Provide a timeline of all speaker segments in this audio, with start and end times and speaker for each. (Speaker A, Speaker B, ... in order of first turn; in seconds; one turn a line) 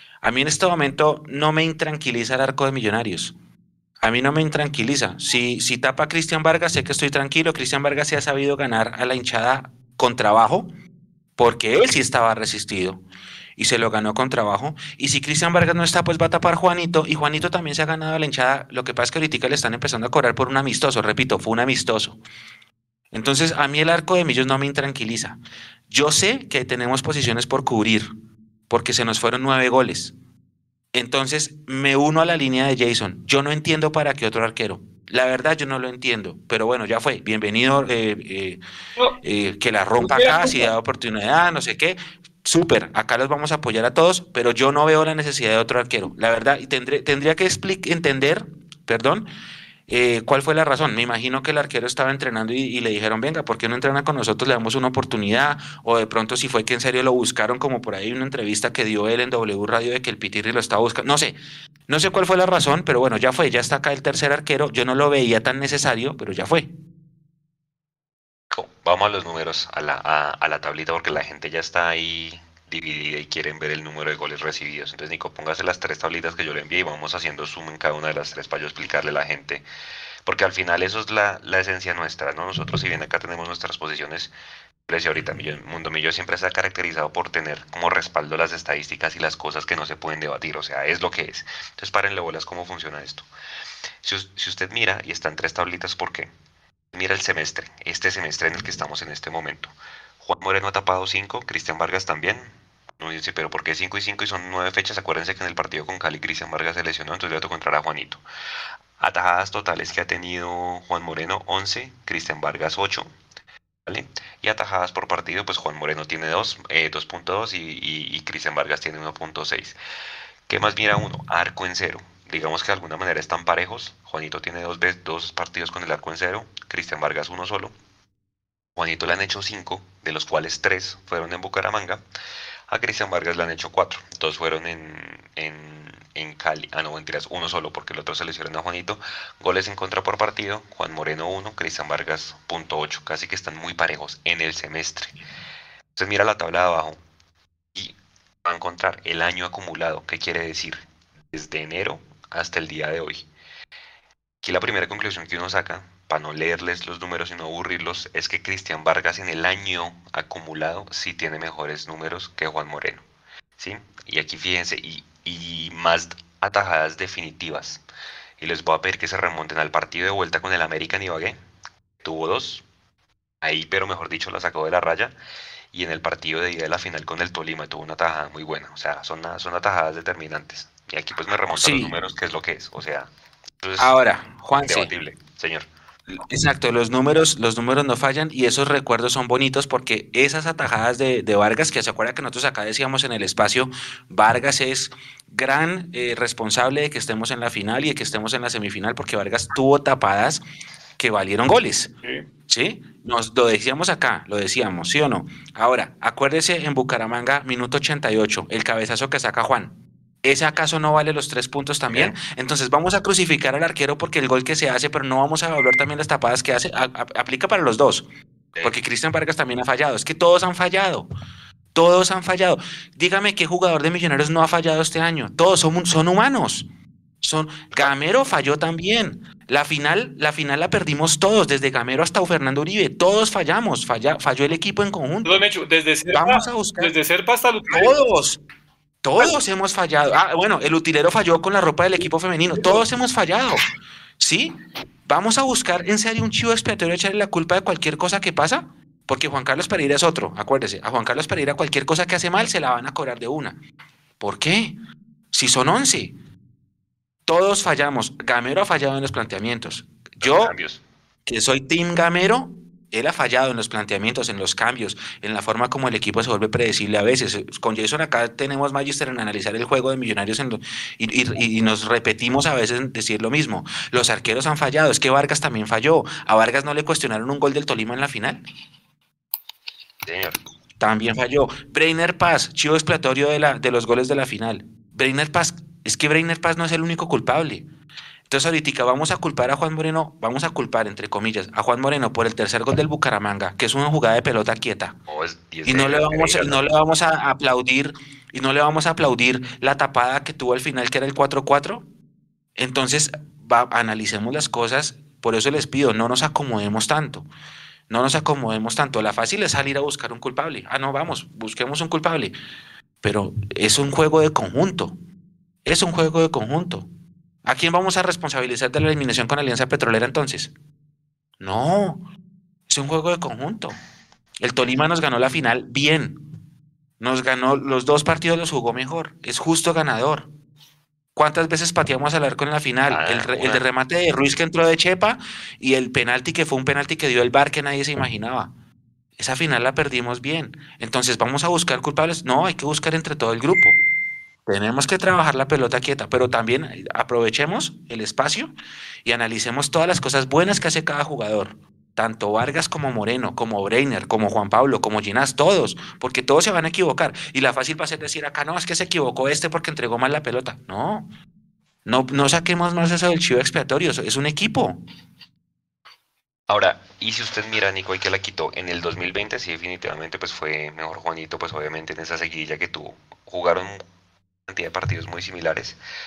Speaker A: 0.2-3.4
Speaker A: 4.0-10.7
Speaker A: 11.4-13.0
Speaker A: 13.6-22.2
Speaker A: 23.1-28.1
Speaker A: 28.7-30.1
Speaker A: 30.9-38.6
Speaker A: 39.2-49.3
Speaker B: 40.0-40.7
Speaker A: 49.9-61.4
Speaker A: 61.9-66.7
Speaker C: 68.5-79.6
Speaker C: 80.2-84.3
Speaker C: 84.9-93.3
Speaker C: 94.0-96.3
Speaker C: 96.9-108.2
Speaker C: 109.0-113.1
Speaker C: 113.9-119.8
Speaker C: 120.5-127.8
Speaker C: 128.8-132.0
Speaker C: 132.7-145.2
Speaker C: 145.9-147.0
Speaker C: 147.7-153.3
Speaker C: 154.4-163.0
Speaker C: 163.6-167.8
Speaker C: 168.4-171.4
Speaker C: 172.0-172.6
Speaker C: 173.4-175.1
Speaker C: 175.7-184.0
Speaker A: 181.5-181.9
Speaker A: 183.8-184.9
Speaker C: 184.6-185.7
Speaker A: 186.1-200.4
Speaker A: 201.0-201.9
Speaker A: 202.5-218.1
Speaker C: 211.9-212.2
Speaker A: 218.6-221.1
Speaker A: 221.7-226.7
Speaker A: 227.2-235.4
Speaker B: 235.2-238.0
Speaker A: 236.1-236.9
Speaker A: 237.7-238.4
Speaker A: 239.0-243.6
Speaker B: 242.6-242.8
Speaker A: 244.2-253.6
Speaker A: 254.2-254.8
Speaker A: 255.3-256.1
Speaker A: 257.3-260.5
Speaker C: 260.2-260.8
Speaker A: 261.3-278.4
Speaker C: 280.1-280.4
Speaker A: 280.8-287.7
Speaker A: 288.3-295.0
Speaker C: 295.1-296.6
Speaker A: 295.7-301.9
Speaker A: 302.6-307.3
Speaker A: 307.9-312.3
Speaker A: 313.0-314.9
Speaker A: 315.6-316.9
Speaker A: 317.4-320.5
Speaker A: 321.4-322.0
Speaker A: 322.7-323.8
Speaker A: 324.4-326.2
Speaker A: 327.0-330.3
Speaker A: 331.2-338.5
Speaker C: 332.9-333.6
Speaker A: 339.2-343.8
Speaker A: 344.5-348.5
Speaker A: 349.1-361.1
Speaker A: 361.9-364.8
Speaker C: 366.5-373.8
Speaker C: 374.5-375.8